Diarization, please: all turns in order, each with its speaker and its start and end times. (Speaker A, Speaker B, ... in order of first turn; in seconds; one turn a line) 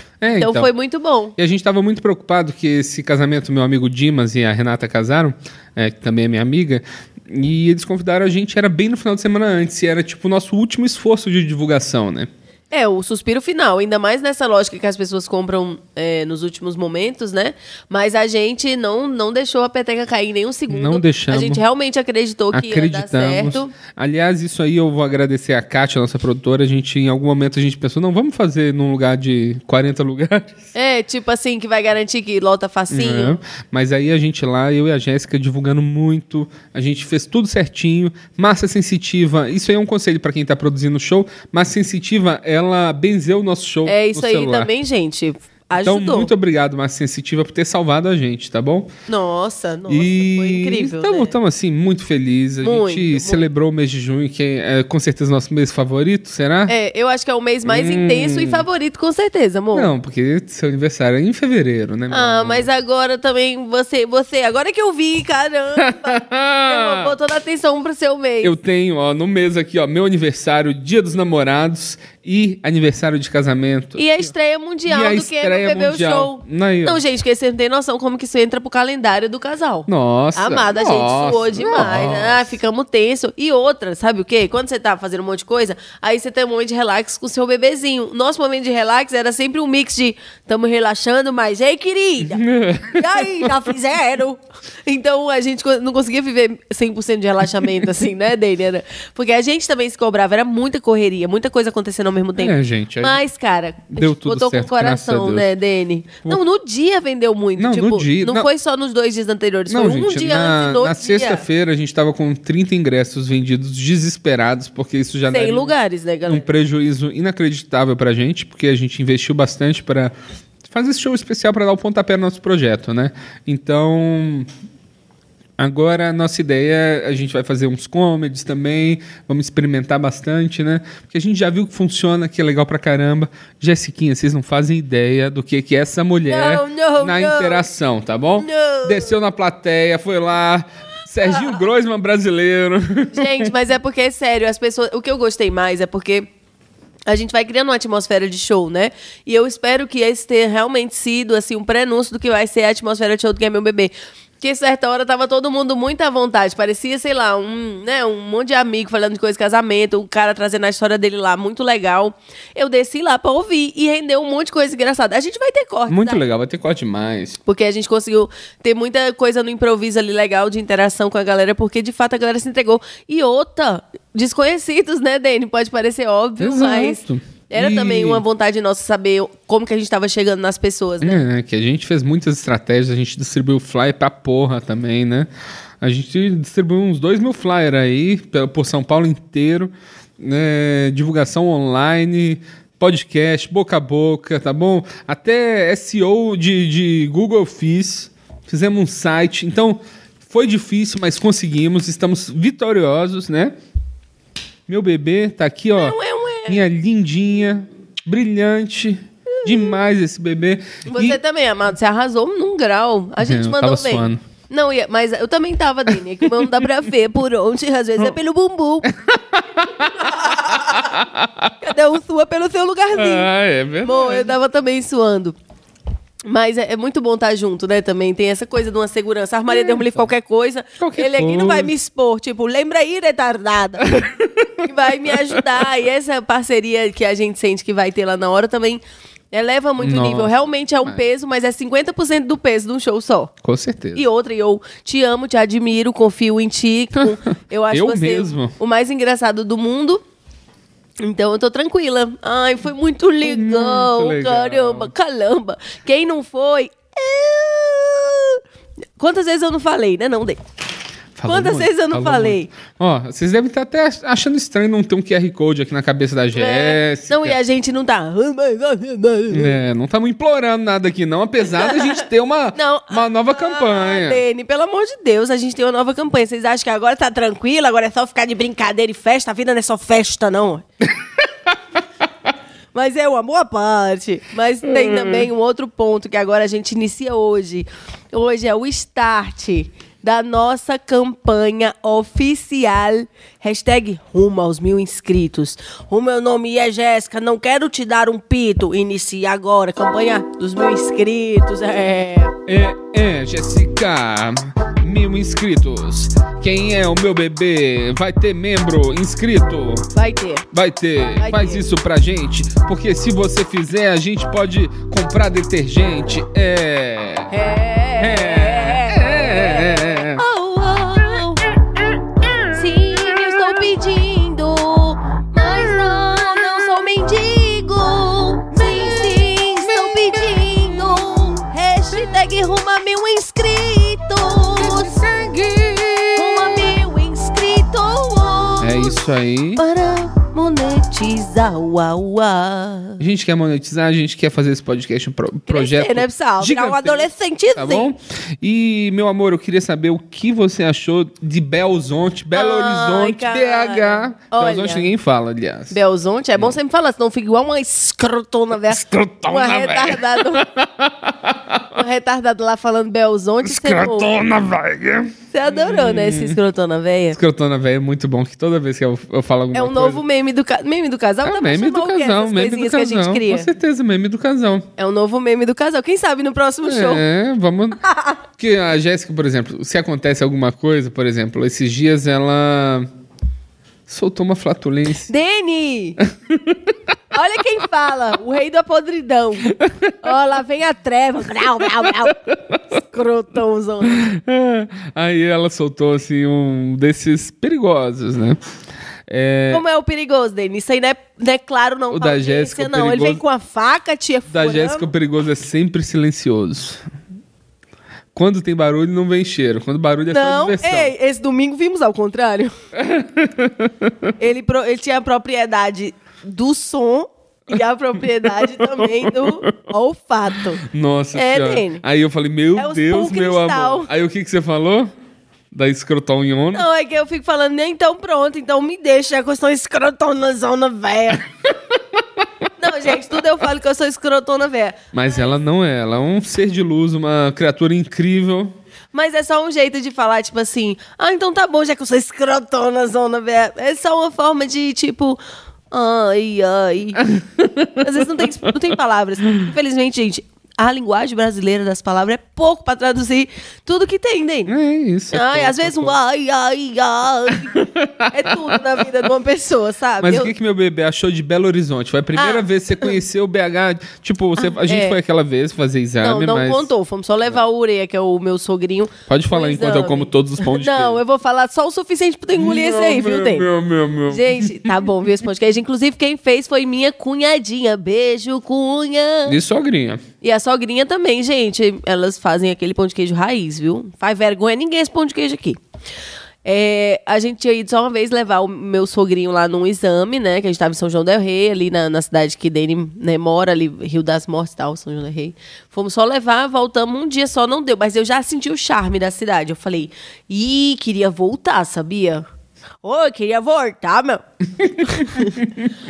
Speaker A: 0.2-0.7
Speaker B: 0.4-1.3
Speaker A: 1.4-12.3
Speaker B: 12.7-23.7
Speaker A: 20.7-21.6
Speaker A: 22.5-30.6
Speaker B: 30.7-33.4
Speaker A: 32.9-44.7
Speaker B: 43.8-46.3
Speaker A: 45.8-48.9
Speaker B: 49.1-51.3
Speaker A: 49.9-56.7
Speaker B: 52.6-53.4
Speaker B: 56.7-59.9
Speaker A: 57.6-58.6
Speaker A: 59.7-62.7
Speaker B: 62.1-68.6
Speaker A: 65.8-67.1
Speaker A: 68.4-74.3
Speaker B: 74.0-111.5
Speaker A: 74.8-77.0
Speaker A: 79.9-82.4
Speaker A: 92.3-93.5
Speaker A: 102.4-103.2
Speaker A: 103.9-105.5
Speaker A: 107.6-108.5
Speaker A: 109.7-115.7
Speaker B: 115.3-116.5
Speaker A: 116.3-120.1
Speaker A: 120.7-124.5
Speaker A: 125.6-143.5
Speaker B: 136.3-137.7
Speaker B: 138.4-139.1
Speaker B: 141.2-141.6
Speaker B: 143.1-146.3
Speaker B: 147.1-166.2
Speaker A: 165.9-167.4
Speaker B: 167.4-181.2
Speaker A: 176.4-178.2
Speaker A: 181.0-185.3
Speaker A: 185.8-203.5
Speaker A: 204.7-211.2
Speaker B: 205.8-206.7
Speaker B: 209.3-209.8
Speaker B: 210.9-218.9
Speaker A: 213.2-214.2
Speaker A: 215.9-216.7
Speaker A: 218.9-221.5
Speaker B: 219.8-220.9
Speaker B: 221.6-223.3
Speaker A: 222.9-224.3
Speaker B: 223.8-225.3
Speaker B: 226.3-234.1
Speaker A: 229.5-229.9
Speaker A: 230.8-231.7
Speaker A: 233.8-235.6
Speaker B: 234.6-243.3
Speaker A: 239.8-241.0
Speaker A: 243.4-244.0
Speaker B: 243.9-250.0
Speaker A: 247.7-248.5
Speaker B: 251.0-258.4
Speaker A: 253.2-254.9
Speaker B: 259.0-260.4
Speaker A: 261.1-267.4
Speaker B: 261.2-262.5
Speaker B: 266.3-269.5
Speaker A: 269.3-274.2
Speaker B: 271.5-280.6
Speaker B: 282.7-302.3
Speaker A: 284.6-285.2
Speaker A: 302.4-309.9
Speaker B: 309.9-310.4
Speaker A: 310.5-317.3
Speaker B: 311.2-311.6
Speaker B: 317.3-321.4
Speaker A: 318.0-320.2
Speaker B: 322.5-335.0
Speaker A: 328.5-331.2
Speaker A: 334.6-336.7
Speaker B: 336.1-338.9
Speaker A: 338.6-339.6
Speaker B: 339.6-343.0
Speaker A: 343.0-355.8
Speaker B: 345.5-347.9
Speaker B: 352.3-354.9
Speaker B: 355.7-360.4
Speaker A: 358.7-361.8
Speaker B: 361.7-364.1
Speaker A: 363.4-366.4
Speaker B: 365.3-367.2
Speaker A: 367.1-370.0
Speaker B: 369.5-373.5
Speaker A: 371.2-374.7
Speaker B: 374.8-377.0
Speaker A: 376.6-377.8
Speaker B: 377.8-378.2
Speaker A: 378.4-382.9
Speaker A: 383.9-385.1
Speaker B: 385.1-386.0
Speaker A: 386.1-387.0
Speaker B: 387.1-392.2
Speaker A: 389.4-389.9
Speaker A: 391.4-392.8
Speaker B: 392.7-394.0
Speaker A: 393.8-398.4
Speaker A: 399.1-399.6
Speaker B: 399.5-404.9
Speaker A: 401.9-403.2
Speaker A: 404.3-406.8
Speaker A: 408.1-410.9
Speaker B: 410.1-412.5
Speaker A: 412.7-414.1
Speaker B: 414.2-420.6
Speaker A: 418.2-419.5
Speaker A: 420.6-424.9
Speaker B: 421.1-421.8
Speaker B: 422.5-423.9
Speaker A: 425.5-426.6
Speaker B: 426.5-431.3
Speaker B: 432.6-435.4
Speaker A: 434.9-438.5
Speaker B: 438.9-445.2
Speaker B: 445.7-447.1
Speaker A: 447.1-448.2
Speaker B: 447.7-454.5
Speaker A: 454.5-455.9
Speaker B: 455.1-460.3
Speaker A: 457.4-458.8
Speaker A: 460.0-466.7
Speaker B: 462.1-462.9
Speaker B: 464.4-465.0
Speaker B: 466.0-473.4
Speaker A: 469.1-471.0
Speaker A: 472.3-474.8
Speaker B: 474.1-479.4
Speaker A: 479.3-480.0
Speaker B: 480.2-485.6
Speaker B: 486.4-502.2
Speaker B: 502.8-504.2
Speaker B: 504.8-505.5
Speaker A: 504.8-505.3